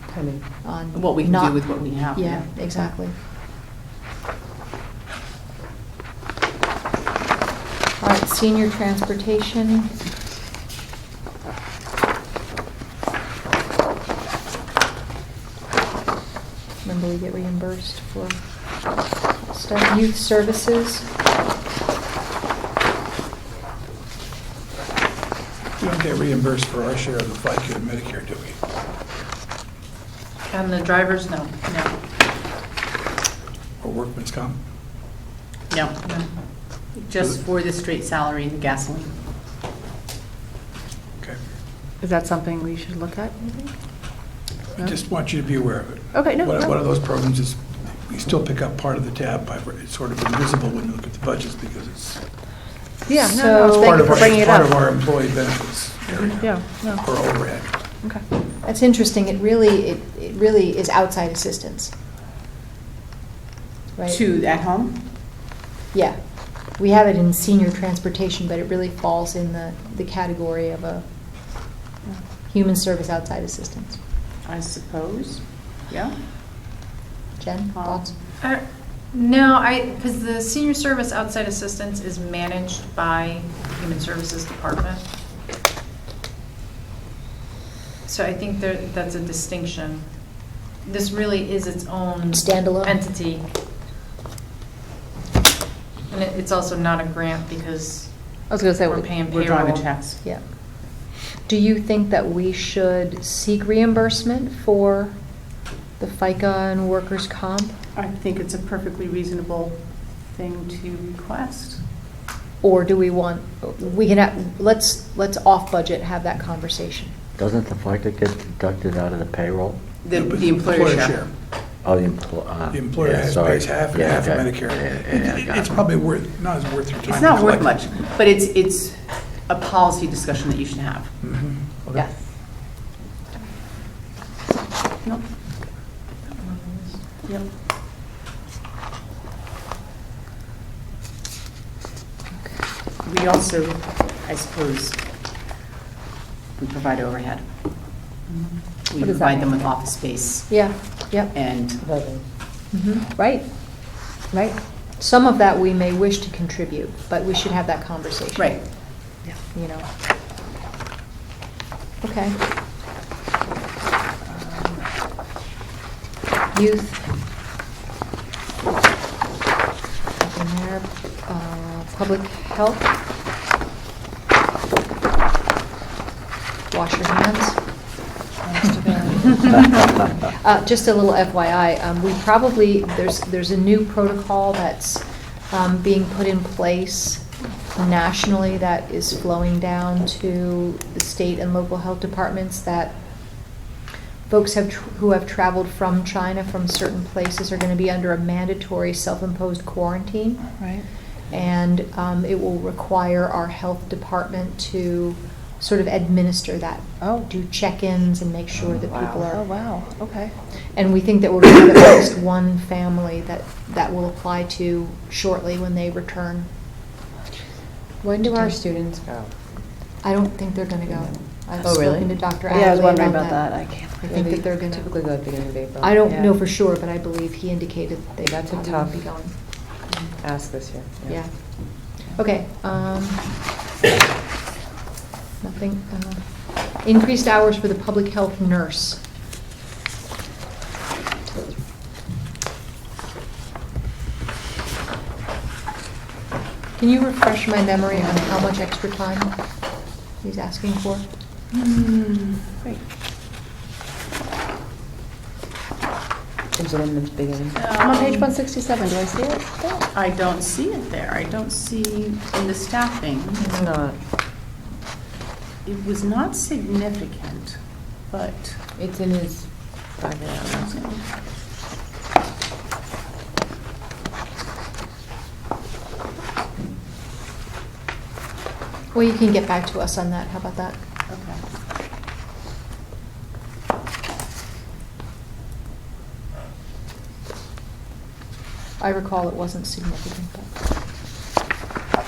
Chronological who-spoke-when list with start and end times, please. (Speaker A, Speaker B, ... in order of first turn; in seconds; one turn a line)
Speaker A: 0.1-0.4
Speaker B: 0.6-1.5
Speaker C: 0.9-2.5
Speaker B: 2.1-3.1
Speaker B: 8.0-10.0
Speaker B: 16.8-18.4
Speaker B: 19.4-21.1
Speaker D: 25.8-28.6
Speaker E: 30.5-31.6
Speaker C: 31.6-31.9
Speaker D: 33.8-34.6
Speaker C: 35.7-36.0
Speaker E: 36.0-36.3
Speaker C: 36.8-39.1
Speaker F: 42.0-43.7
Speaker D: 44.8-52.2
Speaker F: 46.1-46.6
Speaker F: 53.1-54.7
Speaker B: 53.2-54.1
Speaker D: 53.8-56.3
Speaker F: 56.4-57.0
Speaker D: 57.0-57.7
Speaker B: 58.6-61.9
Speaker C: 64.1-65.0
Speaker B: 65.9-71.0
Speaker B: 72.5-74.0
Speaker C: 74.4-76.1
Speaker B: 77.4-78.1
Speaker C: 77.7-78.0
Speaker E: 78.4-85.0
Speaker E: 88.0-90.1
Speaker E: 90.8-93.5
Speaker B: 92.3-93.0
Speaker E: 96.1-99.9
Speaker F: 98.5-99.1
Speaker C: 99.3-100.2
Speaker B: 101.4-105.2
Speaker B: 106.0-107.8
Speaker C: 108.0-111.8
Speaker B: 112.6-117.2
Speaker G: 117.4-119.8
Speaker C: 120.0-121.2
Speaker D: 120.1-121.3
Speaker G: 121.8-125.8
Speaker D: 122.7-127.7
Speaker C: 127.0-131.1
Speaker D: 131.2-132.0
Speaker E: 136.4-137.0
Speaker C: 137.2-137.5
Speaker C: 143.0-145.0
Speaker C: 146.6-147.5
Speaker C: 148.8-151.8
Speaker B: 150.5-151.3
Speaker A: 151.8-152.2
Speaker B: 152.7-153.1
Speaker F: 153.2-154.5
Speaker B: 155.0-158.8
Speaker C: 158.3-158.6
Speaker B: 159.5-159.9
Speaker B: 162.0-162.4
Speaker B: 166.5-167.1
Speaker B: 170.2-172.9
Speaker B: 176.7-177.6
Speaker B: 178.8-192.9
Speaker B: 194.3-200.6
Speaker F: 200.6-200.8
Speaker B: 201.3-209.4
Speaker F: 209.1-210.3
Speaker B: 210.7-216.5
Speaker A: 218.1-219.3
Speaker B: 218.3-218.6
Speaker B: 220.0-224.9
Speaker A: 221.6-222.2
Speaker F: 222.8-223.9
Speaker A: 224.0-226.4
Speaker B: 225.8-229.3
Speaker A: 228.2-229.2
Speaker A: 230.2-231.2
Speaker B: 231.1-233.2
Speaker B: 235.4-239.0
Speaker B: 246.8-249.3
Speaker B: 250.2-251.1
Speaker F: 252.5-252.8
Speaker A: 256.6-257.6
Speaker C: 257.6-258.3
Speaker F: 257.6-259.8
Speaker C: 259.9-263.5
Speaker A: 263.5-264.0
Speaker C: 265.6-268.6
Speaker A: 268.8-270.7
Speaker C: 270.5-271.1
Speaker B: 278.9-280.8
Speaker C: 281.1-281.4
Speaker B: 288.8-290.5